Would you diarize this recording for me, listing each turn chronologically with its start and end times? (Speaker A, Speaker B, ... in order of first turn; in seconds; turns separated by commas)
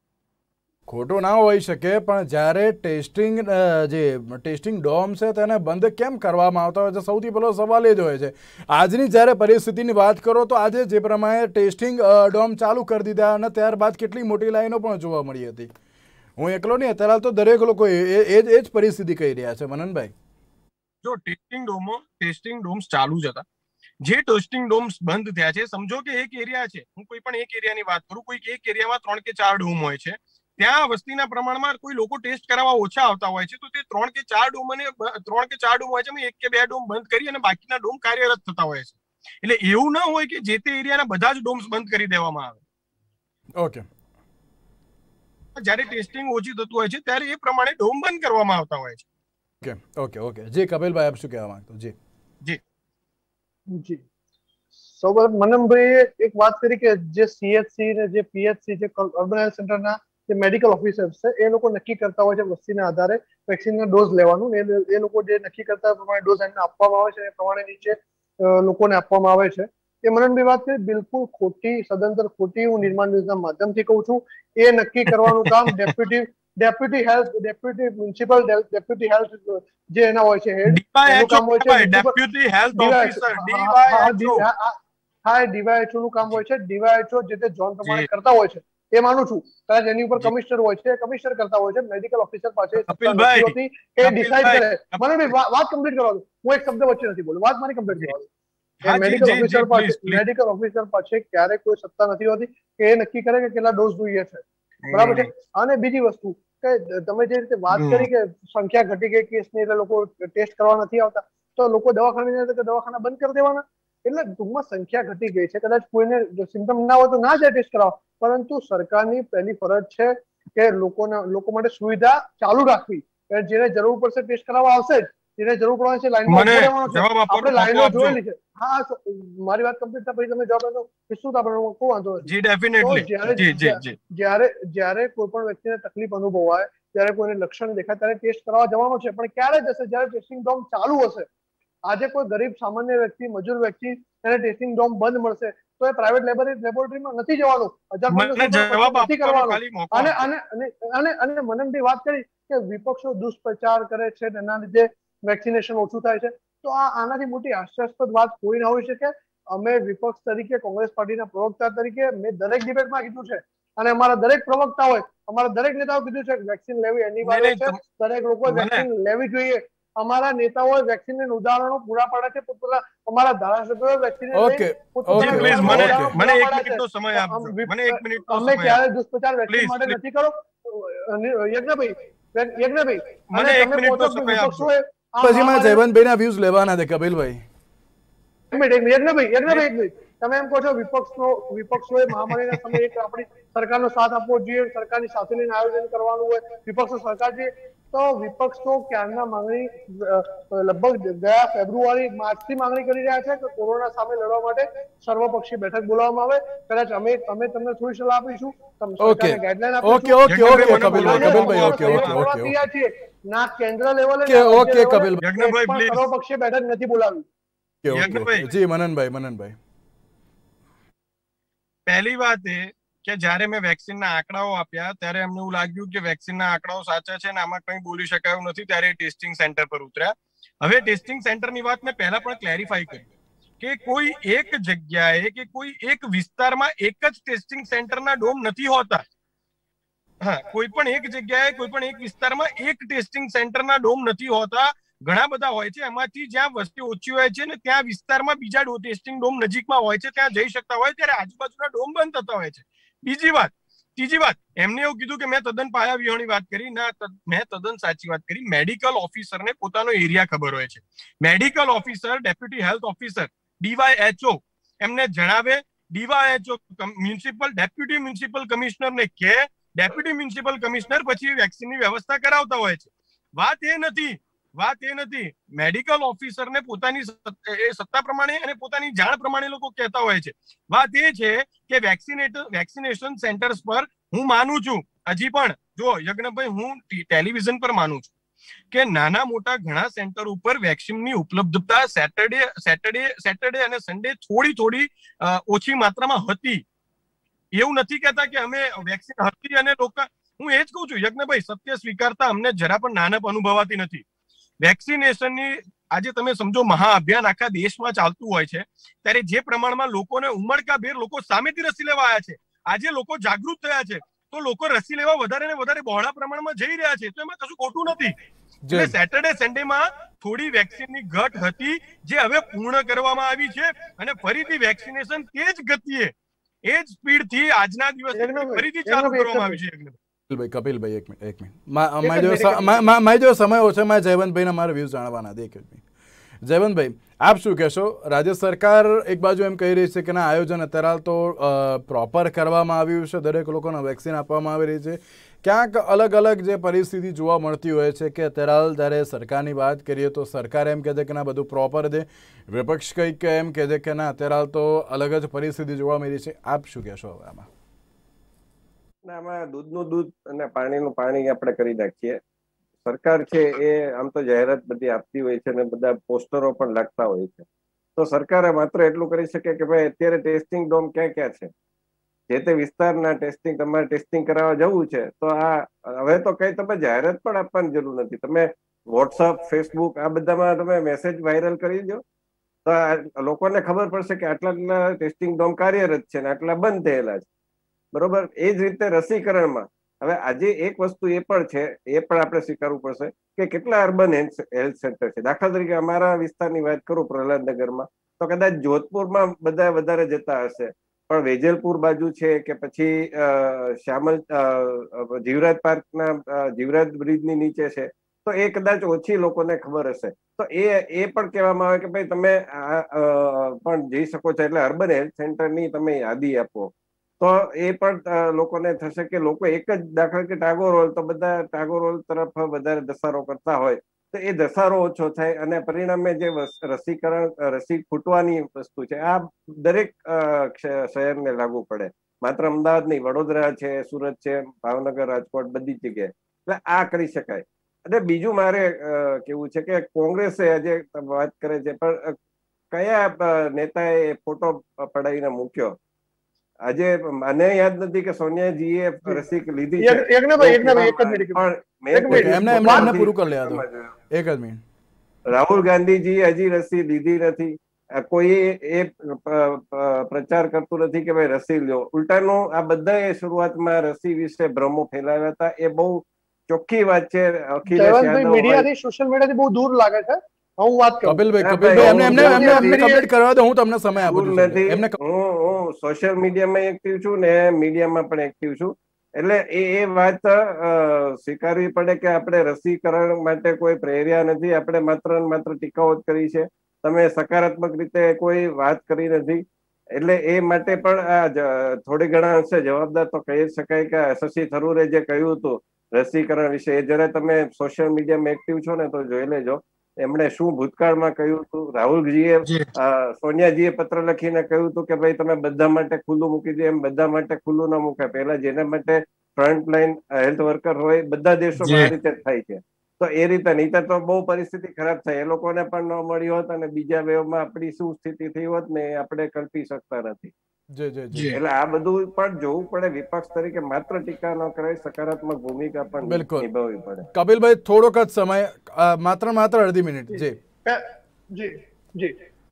Speaker A: 0.9-15.7, Speaker A: 16.4-20.1, Speaker B: 21.0-23.4, Speaker B: 24.0-42.6, Speaker A: 43.6-43.9, Speaker B: 45.6-49.0, Speaker A: 49.6-52.0, Speaker C: 53.7-54.0, Speaker C: 54.9-82.1, Speaker B: 75.2-75.8, Speaker B: 80.7-84.5, Speaker C: 82.8-98.3, Speaker B: 92.8-95.0, Speaker B: 98.8-100.2, Speaker C: 98.8-132.3, Speaker B: 104.8-105.3, Speaker B: 107.7-108.1, Speaker B: 126.3-128.2, Speaker B: 132.2-134.0, Speaker C: 132.8-141.3, Speaker C: 141.9-185.8, Speaker B: 148.1-150.3, Speaker B: 167.2-167.8, Speaker B: 168.5-168.9, Speaker A: 174.3-176.1, Speaker B: 175.2-178.8, Speaker B: 179.5-180.0, Speaker B: 183.3-184.7, Speaker A: 185.2-187.4, Speaker C: 188.5-217.3, Speaker A: 209.0-212.6, Speaker B: 210.3-212.3, Speaker A: 214.2-215.2, Speaker B: 215.2-216.1, Speaker A: 217.8-219.6, Speaker B: 217.9-218.5, Speaker B: 221.9-239.0, Speaker B: 240.2-288.1, Speaker B: 288.7-296.6, Speaker B: 297.5-304.0, Speaker B: 304.6-318.1, Speaker A: 318.6-318.9, Speaker B: 318.7-326.1, Speaker B: 326.6-330.0, Speaker C: 328.1-329.6, Speaker A: 330.3-335.8, Speaker C: 332.0-332.8, Speaker A: 336.4-357.5, Speaker D: 359.1-362.2, Speaker D: 362.9-371.5, Speaker D: 372.3-382.0, Speaker D: 382.7-387.3, Speaker D: 387.9-442.2, Speaker D: 442.7-445.8, Speaker D: 446.7-453.9, Speaker C: 449.8-453.0, Speaker A: 452.1-454.6, Speaker D: 455.3-468.7, Speaker C: 467.7-473.1, Speaker A: 471.1-475.0, Speaker D: 471.4-472.9, Speaker D: 474.0-520.3, Speaker B: 511.6-511.9, Speaker A: 520.7-521.4, Speaker B: 521.1-521.4, Speaker D: 521.3-527.1, Speaker A: 526.0-526.5, Speaker A: 527.1-530.4, Speaker C: 530.1-532.2